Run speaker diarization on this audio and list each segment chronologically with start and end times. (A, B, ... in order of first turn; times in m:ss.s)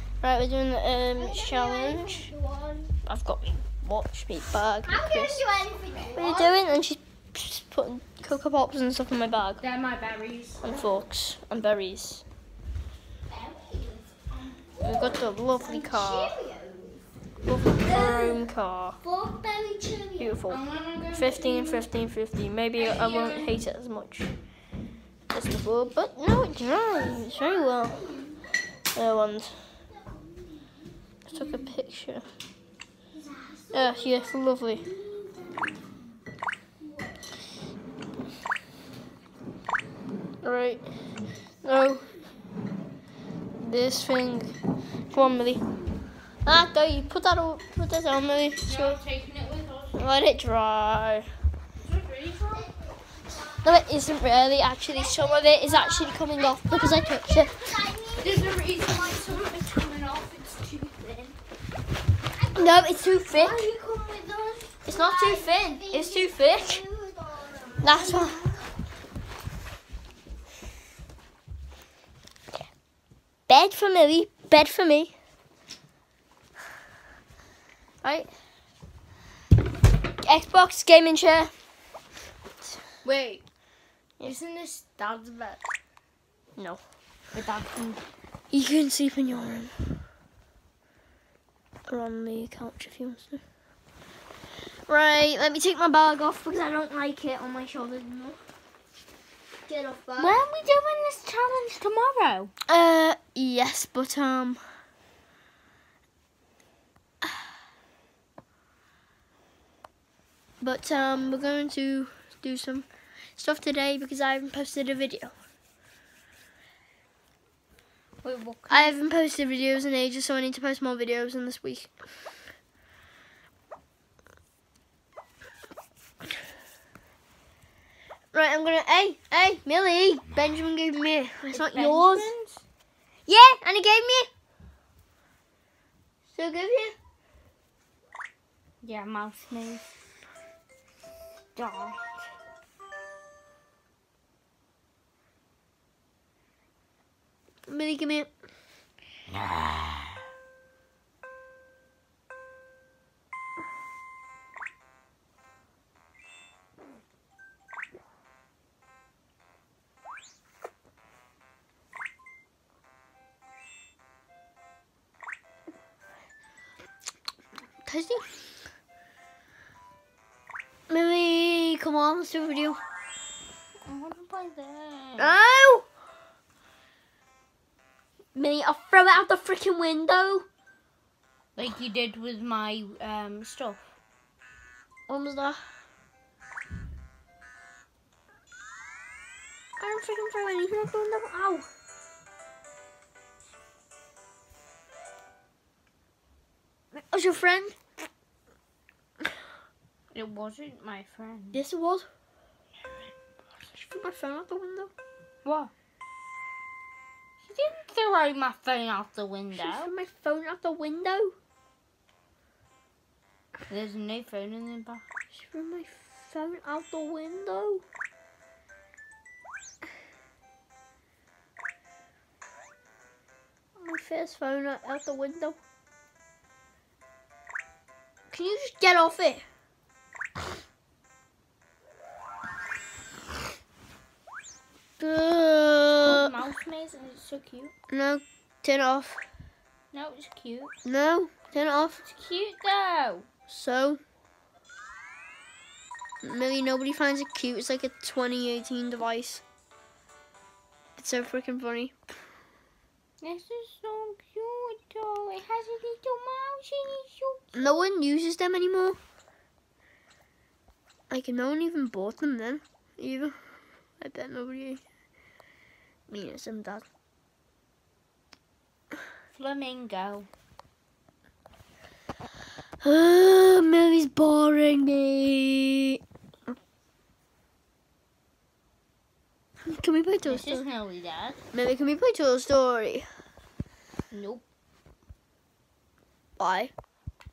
0:00.2-0:02.3 A
0:01.1-0:03.0 B
0:03.0-0:05.4 A
0:04.8-0:06.7 B
0:06.1-0:09.6 A
0:09.6-0:10.6 C
0:10.6-0:12.2 A
0:13.3-0:14.0 B
0:14.8-0:17.0 B
0:14.8-0:16.4 A
0:17.4-0:19.0 A
0:17.8-0:18.4 B
0:19.0-0:20.4 B
0:20.2-0:20.6 A
0:20.5-0:21.9 C
0:21.1-0:24.3 A
0:22.8-0:23.5 C
0:25.3-0:28.1 A
0:26.7-0:28.4 B
0:28.9-0:29.7 A
0:30.0-0:31.6 B
0:31.3-0:32.3 A
0:33.1-0:36.2 B
0:33.7-0:34.9 A
0:36.8-0:37.3 B
0:40.4-0:40.9 A
0:41.6-0:42.1 A
0:43.6-0:44.6 A
0:45.1-0:45.6 A
0:46.4-0:49.0 A
0:48.6-0:50.0 C
0:50.0-0:51.3 A
0:51.8-0:52.7 C
0:52.6-0:53.6 B
0:53.6-0:57.6 A
0:54.9-0:58.6 B
0:58.2-1:01.4 C
1:02.4-1:08.6 B
1:02.6-1:03.7 A
1:04.8-1:06.8 A
1:07.8-1:08.6 A
1:13.5-1:15.1 A
1:18.0-1:18.3 A
1:20.2-1:21.5 A
1:23.0-1:23.4 C
1:24.2-1:25.6 C
1:27.3-1:28.0 C
1:28.5-1:29.7 A
1:31.9-1:33.4 A
1:34.9-1:38.4 A
1:39.6-1:40.4 A
1:40.2-1:42.5 C
1:42.7-1:44.6 A
1:50.6-1:55.3 A
1:58.2-1:58.9 C
1:58.7-2:01.9 A
2:08.3-2:12.3 A
2:11.5-2:12.6 C
2:13.3-2:14.3 A
2:16.3-2:17.0 A
2:18.8-2:19.9 C
2:21.6-2:22.2 C
2:27.7-2:28.3 A
2:47.8-2:48.4 A
2:50.9-2:52.8 A
2:53.8-2:55.4 C
2:55.2-2:55.9 A
2:58.4-3:00.5 A
3:01.6-3:03.8 C
3:05.1-3:05.6 A
3:09.8-3:11.7 A
3:16.9-3:17.8 A
3:20.1-3:21.6 C
3:21.5-3:22.1 A
3:23.7-3:24.9 A
3:25.4-3:25.7 C
3:27.4-3:29.9 C
3:29.6-3:31.4 A
3:33.7-3:35.0 C
3:35.3-3:37.8 A
3:43.8-3:45.6 A
3:48.3-3:49.4 A
3:55.0-3:56.3 A
3:55.9-3:57.7 C
3:57.9-3:59.2 A
3:59.9-4:00.7 C
4:00.8-4:02.0 A
4:02.0-4:03.3 C
4:03.5-4:04.0 A
4:06.2-4:09.4 A
4:11.0-4:12.0 A
4:13.2-4:17.7 C
4:17.6-4:19.0 A
4:21.1-4:23.4 A
4:24.0-4:24.8 A
4:26.1-4:26.9 A
4:29.3-4:30.3 C
4:32.8-4:36.0 A
4:39.6-4:40.6 A
4:40.2-4:41.4 C
4:41.5-4:43.1 A
4:44.1-4:44.4 C
4:46.4-4:46.7 A